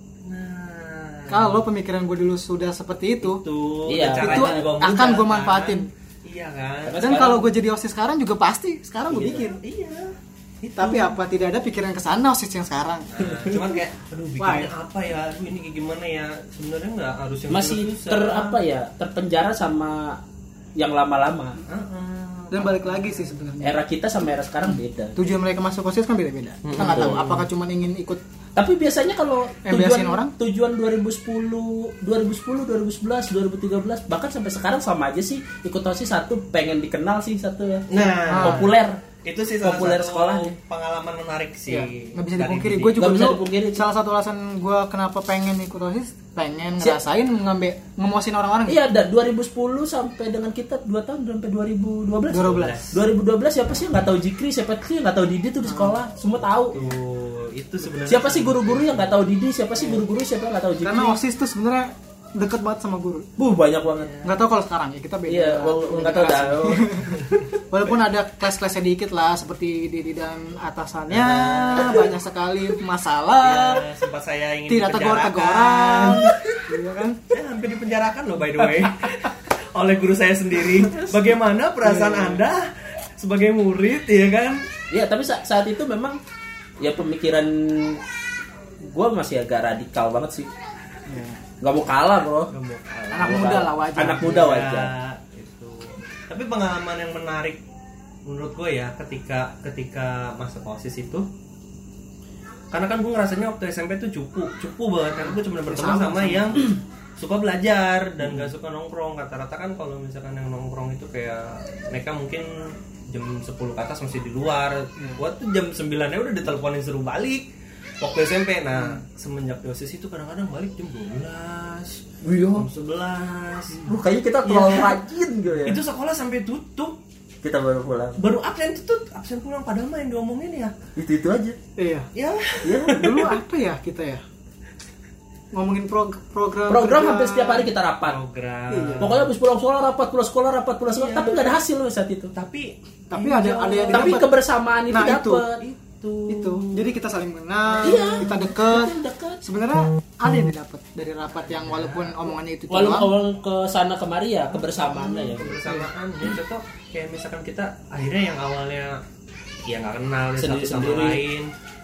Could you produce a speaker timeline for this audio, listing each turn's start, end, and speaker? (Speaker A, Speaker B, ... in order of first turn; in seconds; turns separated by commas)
Speaker A: 0.2-1.6, Speaker B: 1.3-3.4, Speaker A: 3.2-7.1, Speaker C: 3.9-4.7, Speaker B: 4.1-5.9, Speaker C: 6.8-7.5, Speaker B: 7.0-9.6, Speaker C: 9.1-9.4, Speaker A: 9.3-11.2, Speaker B: 10.8-13.1, Speaker A: 13.1-18.6, Speaker B: 14.4-14.7, Speaker C: 17.5-20.2, Speaker C: 20.8-21.6, Speaker A: 21.6-23.4, Speaker B: 22.5-23.8, Speaker C: 23.6-25.2, Speaker B: 24.6-28.2, Speaker A: 26.6-27.4, Speaker C: 26.8-27.4, Speaker C: 28.6-39.0, Speaker B: 29.6-30.3, Speaker A: 37.9-43.0, Speaker B: 38.2-38.7, Speaker C: 39.6-40.6, Speaker B: 41.7-48.8, Speaker C: 43.0-43.8, Speaker C: 48.7-56.8, Speaker B: 52.3-52.8, Speaker A: 52.5-53.0, Speaker B: 55.6-56.0, Speaker A: 56.7-59.1, Speaker C: 58.1-61.2, Speaker B: 60.8-63.3, Speaker C: 63.4-64.1, Speaker A: 63.9-64.3, Speaker B: 64.2-73.8, Speaker C: 65.3-66.9, Speaker A: 67.2-67.4, Speaker A: 71.2-72.0, Speaker C: 71.3-72.1, Speaker A: 73.4-76.4, Speaker B: 74.7-77.2, Speaker A: 77.3-84.7, Speaker B: 81.8-82.4, Speaker C: 84.9-86.2, Speaker C: 86.8-88.0, Speaker C: 88.8-90.5, Speaker B: 91.1-91.4, Speaker C: 91.6-92.5, Speaker A: 92.5-97.6, Speaker B: 93.1-94.4, Speaker C: 93.2-94.9, Speaker A: 98.3-101.3, Speaker A: 102.7-123.9, Speaker B: 105.7-106.6, Speaker C: 122.2-122.7, Speaker C: 123.8-125.8, Speaker A: 124.4-125.0, Speaker A: 125.6-127.0, Speaker C: 127.4-128.2, Speaker A: 128.2-130.8, Speaker C: 130.9-131.6, Speaker B: 131.8-132.1, Speaker A: 132.1-133.3, Speaker C: 132.6-133.1, Speaker B: 132.8-134.2, Speaker B: 135.5-137.7, Speaker C: 136.7-138.2, Speaker A: 138.1-139.3, Speaker B: 138.7-139.2, Speaker C: 139.0-142.3, Speaker A: 140.9-141.6, Speaker A: 142.3-144.2, Speaker B: 143.1-144.3, Speaker C: 143.9-145.6, Speaker B: 144.9-145.4, Speaker A: 145.6-146.9, Speaker B: 146.3-153.1, Speaker C: 147.8-149.4, Speaker A: 151.5-152.2, Speaker C: 152.7-155.7, Speaker A: 155.0-159.0, Speaker A: 159.7-161.5, Speaker C: 160.4-161.2